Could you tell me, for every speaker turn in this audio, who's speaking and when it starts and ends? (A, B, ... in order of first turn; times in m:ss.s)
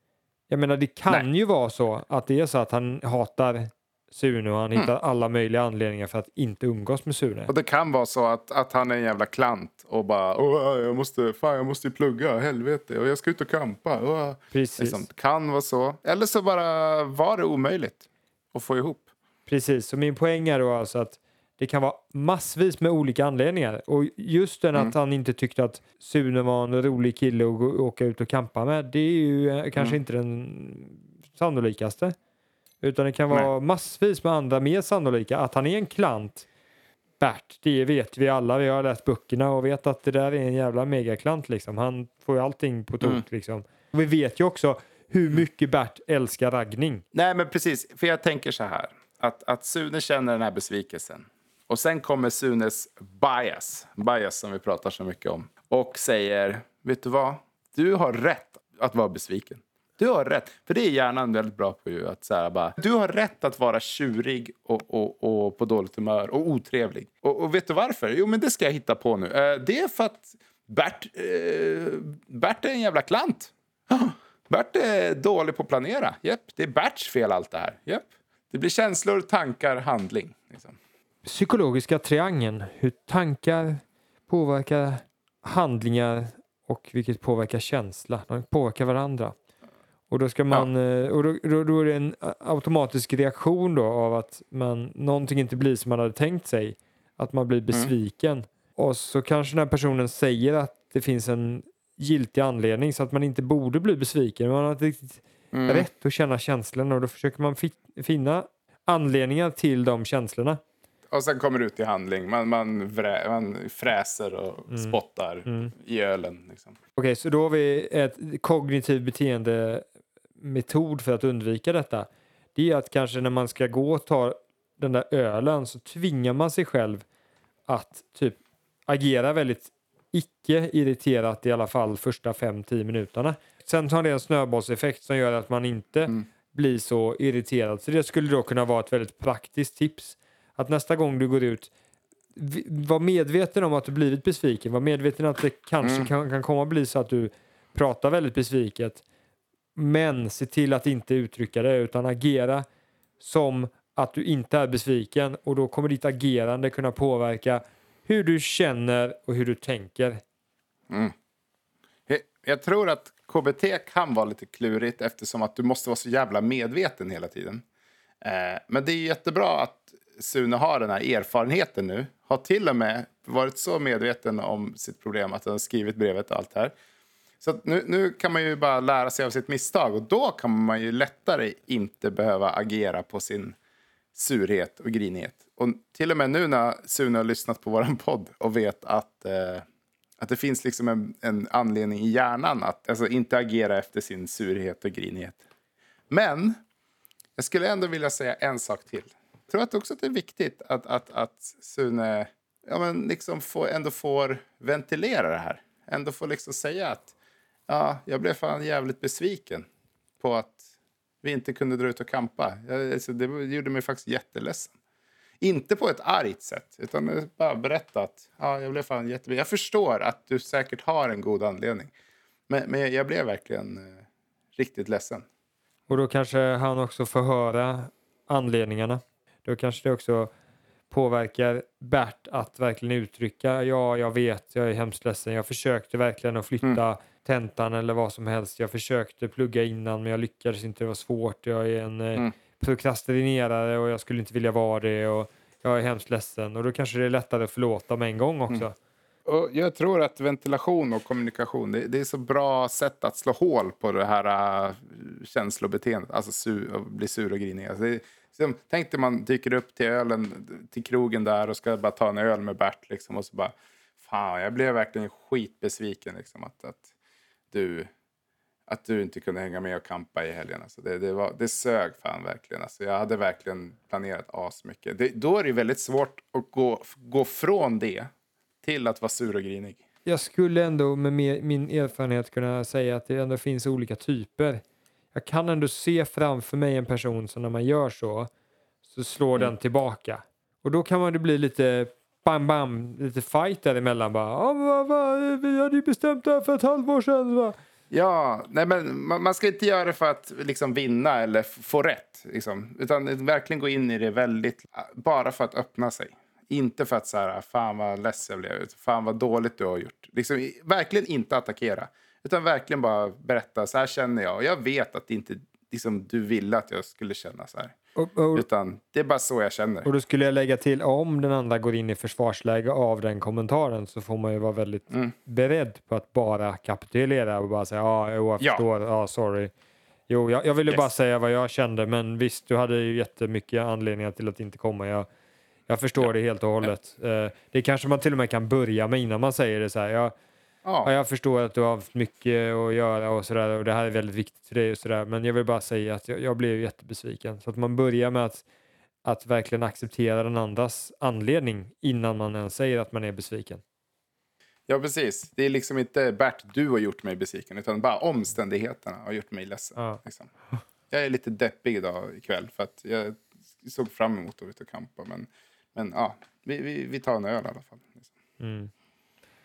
0:00.5-0:07.5 A
0:07.5-0:19.1 B
0:14.5-0:15.0 A
0:19.5-0:32.1 A
0:32.8-0:36.5 A
0:37.2-0:47.0 A
0:47.1-1:20.8 B
1:21.2-1:29.3 A
1:30.1-1:50.6 A
1:45.5-1:45.9 B
1:51.1-1:56.8 B
1:54.7-1:55.7 A
1:57.0-1:59.9 A
2:00.4-2:07.0 A
2:07.7-2:21.7 A
2:22.4-2:29.0 A
2:25.8-2:26.1 B
2:29.8-2:32.6 A
2:33.2-2:40.2 A
2:42.1-2:47.6 B
2:48.2-2:56.7 B
2:57.4-3:03.6 B
3:04.1-3:09.6 B
3:10.2-3:15.4 B
3:16.1-3:16.6 B
3:17.4-3:27.1 B
3:27.7-3:29.7 B
3:30.2-3:30.6 B
3:31.2-3:34.7 B
3:35.4-3:41.9 B
3:42.5-3:44.0 B
3:44.6-3:45.2 B
3:45.9-3:50.3 A
3:50.9-4:08.7 A
4:09.2-4:26.9 B
4:27.5-4:27.9 B
4:28.7-4:38.1 B
4:38.6-4:39.8 B
4:40.0-4:44.6 A
4:45.1-4:48.3 A
4:48.9-4:57.6 A
4:57.9-5:17.8 B
5:18.0-5:18.4 A
5:18.3-5:19.9 B
5:19.8-5:29.5 A
5:30.1-5:35.1 A
5:35.7-5:40.1 A
5:40.6-5:40.9 B
5:40.8-5:48.4 A
5:49.0-5:53.6 A
5:54.7-6:00.3 B
6:00.9-6:08.1 B
6:08.4-6:08.7 A